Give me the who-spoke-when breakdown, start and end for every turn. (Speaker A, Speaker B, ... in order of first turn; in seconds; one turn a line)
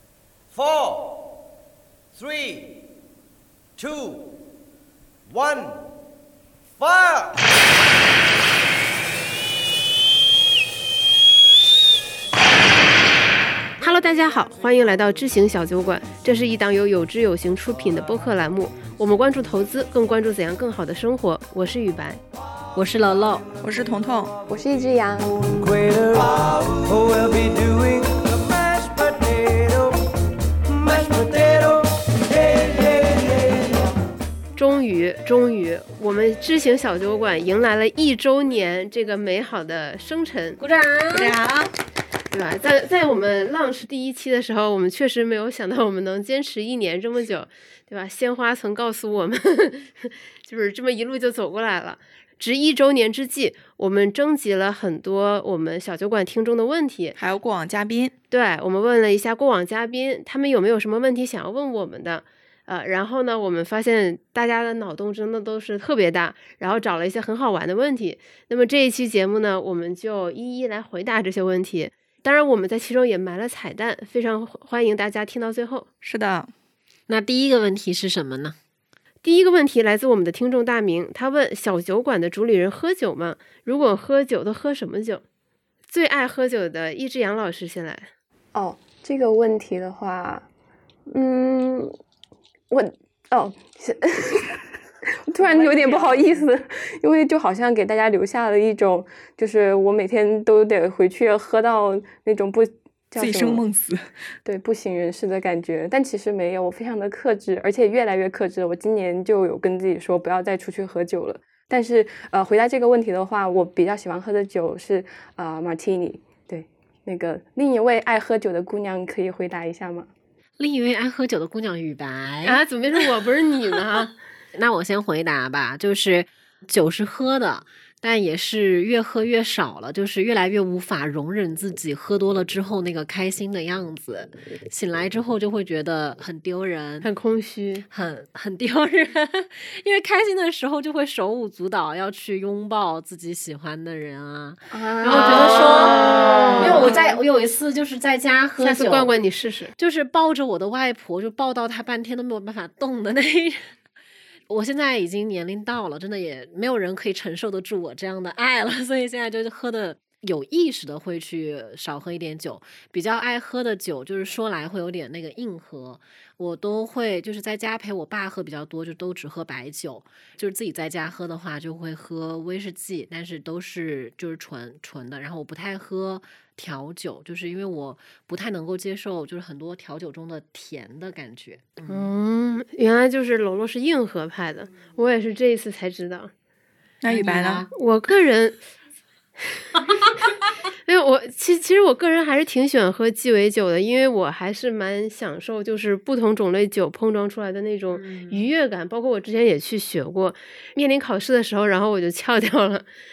Speaker A: 0.5-1.2
Speaker A: 2.1-2.8
Speaker A: 3.8-4.3
Speaker A: 5.3-5.8
Speaker A: 6.8-7.4
Speaker B: 13.8-22.2
Speaker C: 22.7-23.4
Speaker D: 23.6-24.4
Speaker E: 24.5-25.5
Speaker A: 25.5-30.0
Speaker A: 30.6-33.8
Speaker B: 34.5-40.6
Speaker C: 40.6-41.7
Speaker D: 41.1-41.5
Speaker B: 42.3-57.2
Speaker D: 57.2-58.1
Speaker B: 58.3-75.9
Speaker D: 76.0-76.5
Speaker C: 77.1-78.5
Speaker B: 79.2-85.2
Speaker B: 85.9-88.1
Speaker E: 88.5-90.5
Speaker E: 91.1-91.9
Speaker E: 92.7-94.7
Speaker E: 95.3-103.6
Speaker B: 95.4-96.4
Speaker D: 103.2-104.1
Speaker E: 104.4-120.1
Speaker C: 120.6-122.6
Speaker B: 122.4-124.1
Speaker C: 124.5-137.1
Speaker B: 137.0-137.8
Speaker C: 137.9-149.1
Speaker E: 144.7-146.9
Speaker B: 145.0-147.0
Speaker B: 148.6-149.7
Speaker C: 149.8-153.7
Speaker C: 154.5-182.1
Speaker B: 181.9-186.3
Speaker D: 187.0-187.7
Speaker C: 187.1-187.7
Speaker B: 187.7-188.6
Speaker B: 190.8-202.9
Speaker C: 197.9-198.4